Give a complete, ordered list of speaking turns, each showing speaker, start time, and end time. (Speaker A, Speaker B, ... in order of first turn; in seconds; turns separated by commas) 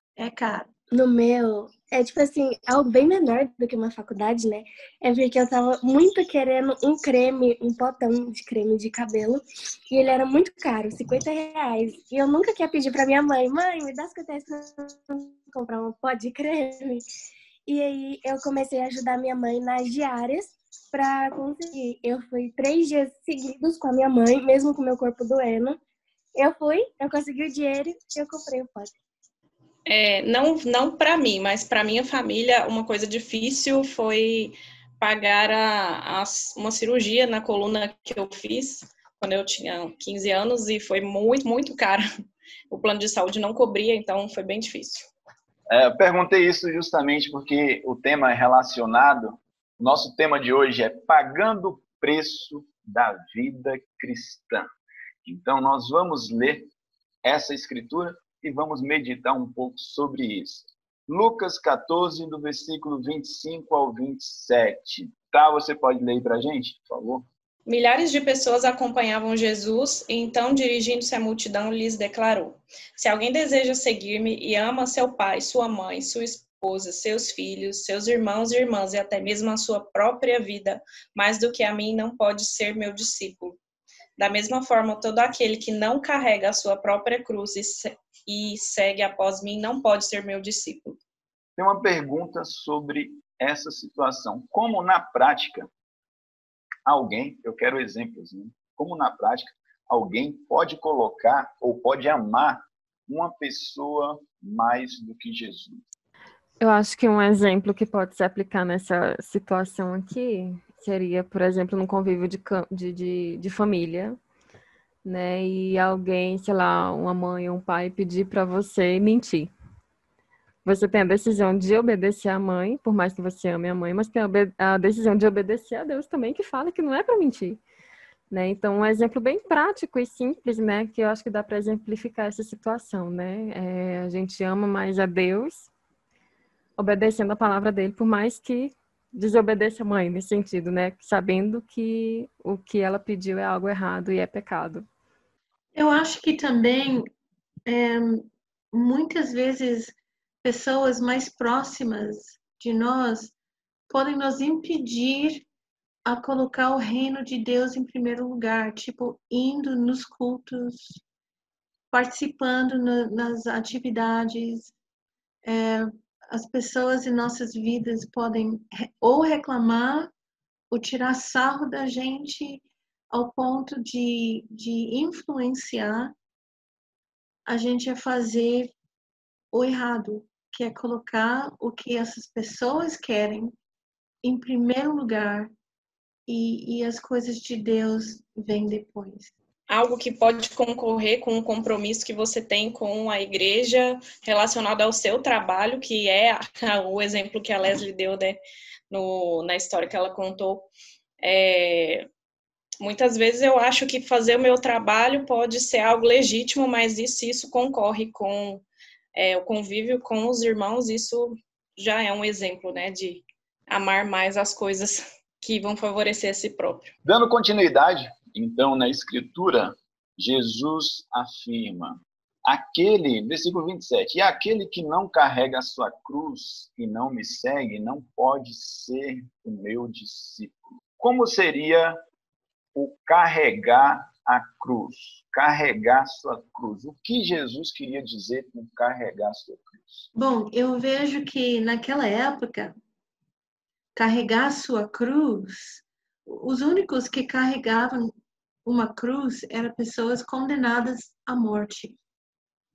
Speaker A: 0.2-0.7, Speaker B: 0.9-17.0, Speaker B: 17.7-25.8, Speaker B: 26.4-28.9, Speaker C: 29.9-42.0, Speaker C: 42.7-45.1, Speaker D: 45.7-54.7, Speaker D: 55.2-56.7, Speaker D: 57.2-67.3, Speaker C: 67.7-83.6, Speaker C: 84.2-91.0, Speaker D: 91.6-95.7, Speaker D: 96.9-105.8, Speaker E: 106.6-114.2, Speaker E: 115.0-119.5, Speaker E: 120.7-127.6, Speaker E: 128.3-135.7, Speaker E: 136.8-144.9, Speaker A: 145.8-147.1, Speaker A: 147.7-153.3, Speaker A: 153.9-155.5, Speaker A: 156.1-161.0, Speaker A: 161.9-164.7, Speaker A: 165.4-170.1, Speaker A: 170.7-176.1, Speaker A: 177.5-178.7, Speaker A: 179.5-183.5, Speaker A: 184.2-185.5, Speaker A: 186.3-189.3, Speaker C: 189.7-198.4, Speaker C: 198.9-200.7, Speaker C: 201.2-202.1, Speaker C: 202.8-216.9, Speaker D: 217.1-232.0, Speaker D: 232.8-240.1, Speaker A: 240.2-242.8, Speaker A: 243.9-248.1, Speaker A: 248.7-252.0